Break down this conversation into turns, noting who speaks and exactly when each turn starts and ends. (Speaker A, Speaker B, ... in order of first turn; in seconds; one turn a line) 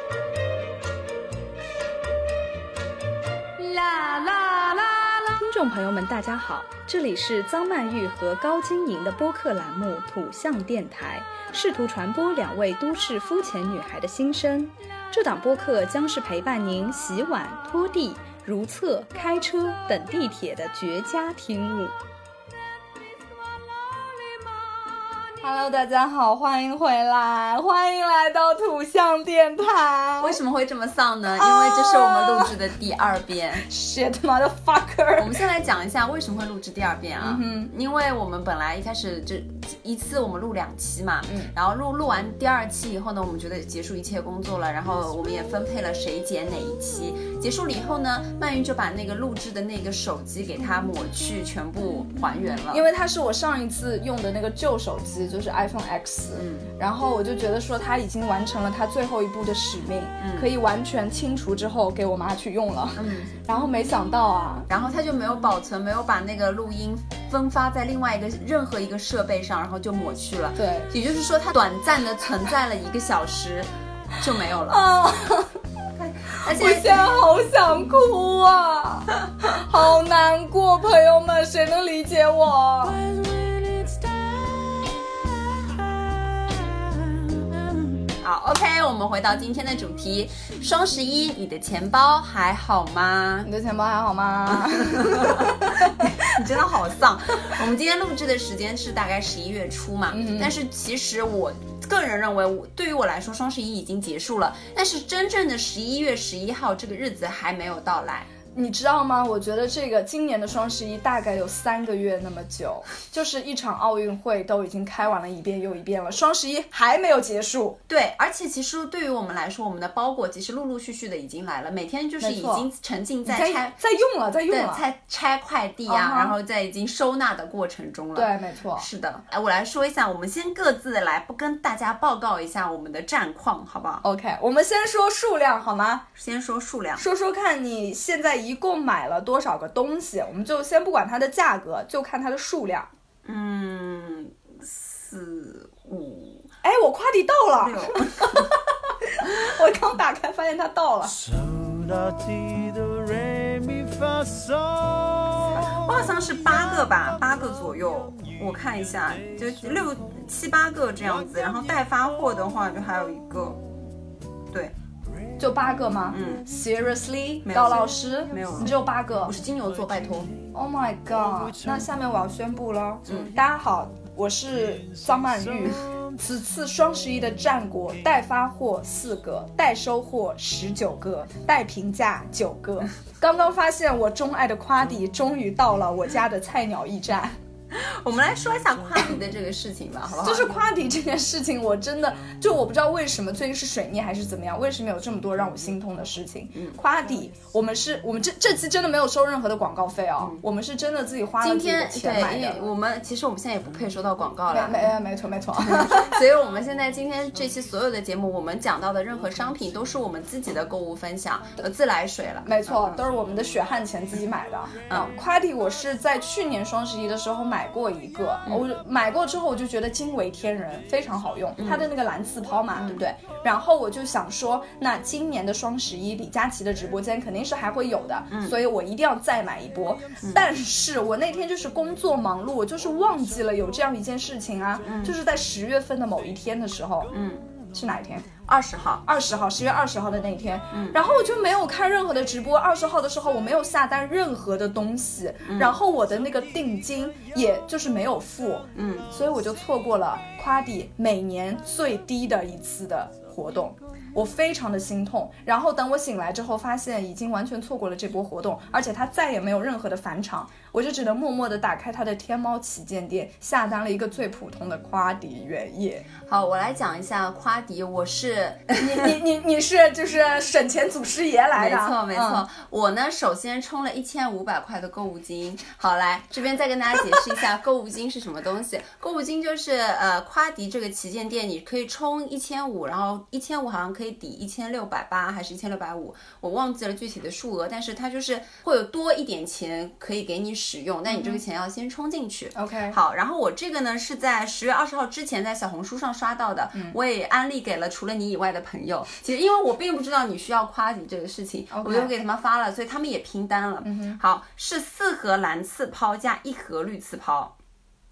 Speaker A: 3.6-21.9
Speaker A: 25.3-30.4
Speaker B: 30.2-33.6
Speaker A: 31.3-32.5
Speaker A: 33.6-35.3
Speaker B: 35.2-52.8
Speaker A: 37.2-37.7
Speaker A: 41.3-41.5
Speaker A: 52.7-64.7
Speaker B: 56.3-56.7
Speaker B: 60.2-60.5
Speaker B: 63.0-63.4
Speaker B: 64.7-74.8
Speaker A: 70.6-70.9
Speaker A: 74.7-75.5
Speaker B: 76.0-77.0
Speaker A: 76.4-83.1
Speaker B: 88.2-93.5
Speaker A: 93.5-96.1
Speaker B: 94.6-108.3
Speaker A: 100.1-100.5
Speaker A: 108.5-117.8
Speaker B: 117.9-123.7
Speaker A: 122.2-122.7
Speaker A: 123.2-124.8
Speaker B: 124.5-134.0
Speaker A: 125.9-126.3
Speaker A: 128.1-128.9
Speaker A: 134.0-136.1
Speaker B: 136.2-137.0
Speaker A: 137.0-142.9
Speaker B: 143.2-146.5
Speaker A: 146.6-151.2
Speaker B: 147.6-148.5
Speaker C: 151.2-155.9
Speaker B: 155.5-163.6
Speaker A: 165.4-169.3
Speaker B: 166.1-166.4
Speaker B: 167.4-170.3
Speaker A: 170.5-187.4
Speaker B: 173.1-173.3
Speaker C: 175.6-175.9
Speaker B: 187.7-190.5
Speaker A: 190.2-202.6
Speaker B: 201.4-204.9
Speaker A: 204.5-206.2
Speaker B: 205.6-213.0
Speaker A: 212.4-237.1
Speaker B: 214.9-215.1
Speaker B: 221.6-221.9
Speaker B: 222.8-223.0
Speaker B: 228.3-228.6
Speaker B: 234.8-235.1
Speaker B: 237.1-237.4
Speaker A: 237.7-238.3
Speaker B: 238.5-239.0
Speaker A: 239.1-266.1
Speaker B: 240.7-241.0
Speaker B: 245.4-245.7
Speaker B: 248.7-249.1
Speaker B: 266.2-269.1
Speaker A: 268.7-272.4
Speaker B: 271.5-307.5
Speaker A: 291.1-291.4
Speaker A: 292.5-293.0
Speaker A: 301.7-302.1
Speaker A: 303.8-304.2